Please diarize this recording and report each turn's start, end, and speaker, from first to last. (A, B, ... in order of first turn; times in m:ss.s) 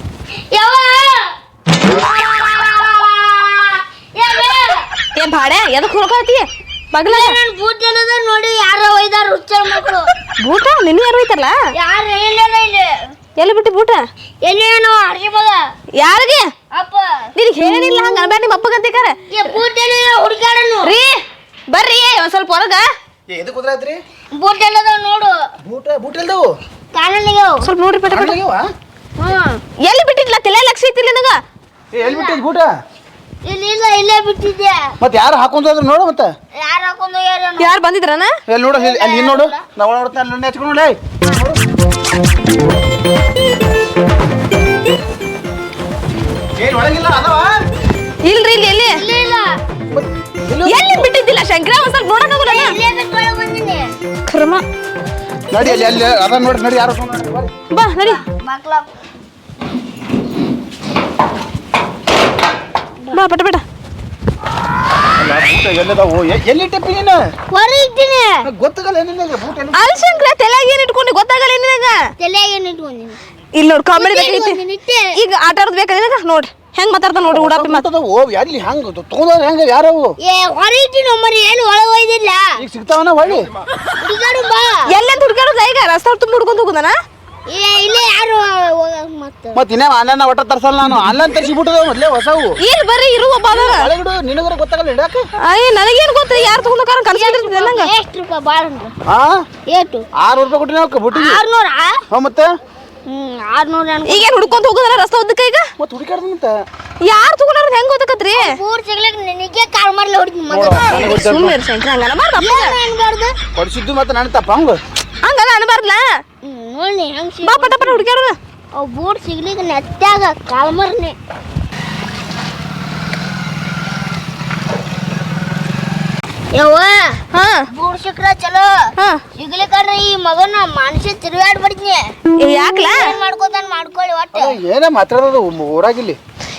0:00.5-0:04.8 A
0:05.1-0:07.4 B
0:07.0-0:10.1 A
0:10.4-0:11.6 B
0:11.7-0:13.0 A
0:13.4-0:14.0 B
0:14.4-0:15.6 A
0:16.0-0:16.5 B
0:16.7-0:18.3 A
0:17.4-0:19.2 B
0:19.3-0:20.9 A
0:20.8-0:22.8 B
0:23.3-0:24.0 C
0:24.3-0:25.3 A
0:25.6-0:26.5 C
0:26.9-0:27.6 A
0:27.6-0:28.4 B
0:28.1-0:28.7 C
0:29.2-0:29.6 A
0:29.8-0:31.4 B
0:31.9-0:32.7 C
0:32.0-0:32.4 A
0:33.4-0:34.9 A
0:35.0-0:36.3 C
0:36.5-0:37.8 A
0:37.6-0:38.3 B
0:38.5-0:41.6 C
0:38.7-0:39.6 A
0:46.6-0:47.6 C
0:48.2-0:49.0 B
0:48.9-0:49.6 A
0:49.9-0:51.1 C
0:50.6-0:52.7 B
0:52.4-0:53.9 A
0:54.3-0:54.6 B
0:55.5-0:57.5 C
0:55.6-0:56.1 A
0:57.7-0:58.2 B
0:58.0-0:58.9 A
1:03.1-1:03.6 B
1:05.2-1:07.2 C
1:07.5-1:08.5 A
1:08.4-1:10.0 C
1:09.7-1:12.0 B
1:12.2-1:13.2 A
1:13.5-1:14.6 B
1:13.9-1:15.1 A
1:15.1-1:17.8 B
1:17.3-1:20.1 C
1:20.2-1:22.6 A
1:22.6-1:23.5 C
1:24.0-1:24.9 A
1:24.9-1:27.0 B
1:27.5-1:29.6 A
1:29.5-1:32.6 C
1:32.6-1:33.8 B
1:33.5-1:35.2 C
1:35.4-1:37.9 B
1:36.3-1:38.9 A
1:39.0-1:39.4 C
1:39.7-1:40.0 A
1:40.2-1:41.4 C
1:41.1-1:42.0 A
1:42.1-1:42.5 C
1:43.1-1:44.6 A
1:44.1-1:45.7 B
1:45.8-1:46.6 C
1:47.0-1:48.4 B
1:48.3-1:51.0 A
1:50.5-1:51.6 C
1:50.9-1:52.7 B
1:52.4-1:53.3 A
1:53.5-1:54.8 C
1:55.2-1:56.0 B
1:56.4-1:58.0 A
1:57.4-1:58.4 B
1:58.7-2:01.2 A
2:06.5-2:07.2 A
2:07.3-2:07.6 B
2:07.7-2:12.1 A
2:12.4-2:13.0 B
2:12.7-2:14.6 A
2:14.3-2:16.2 C